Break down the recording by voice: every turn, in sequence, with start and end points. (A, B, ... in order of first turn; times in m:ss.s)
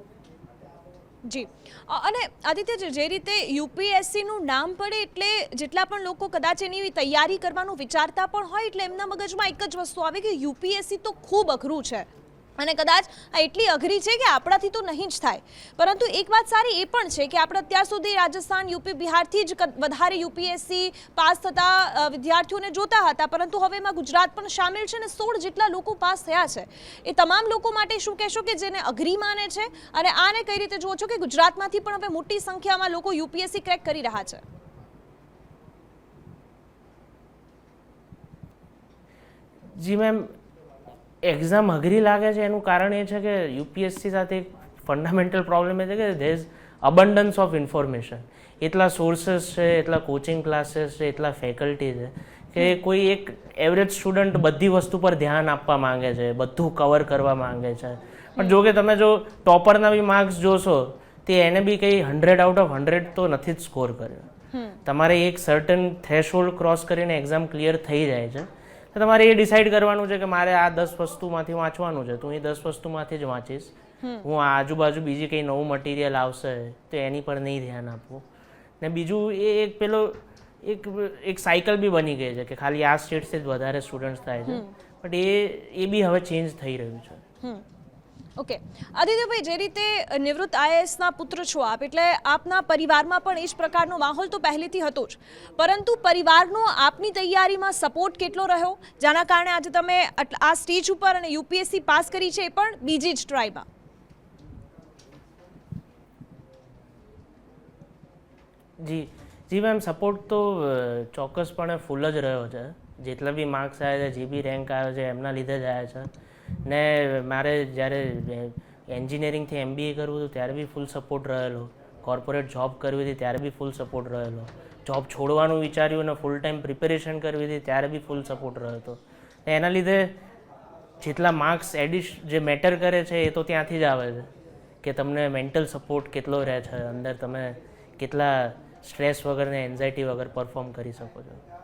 0:01.2-0:34.4 A
0:39.7-0:40.3 B
0:41.2-1:04.3 B
1:04.5-1:04.8 A
1:04.8-1:18.2 B
1:14.0-1:14.2 A
1:18.8-1:27.2 B
1:24.5-1:24.7 A
1:28.4-1:43.7 A
1:48.8-1:56.1 B
1:56.6-2:10.2 B
2:11.0-2:14.3 B
2:14.8-2:21.4 B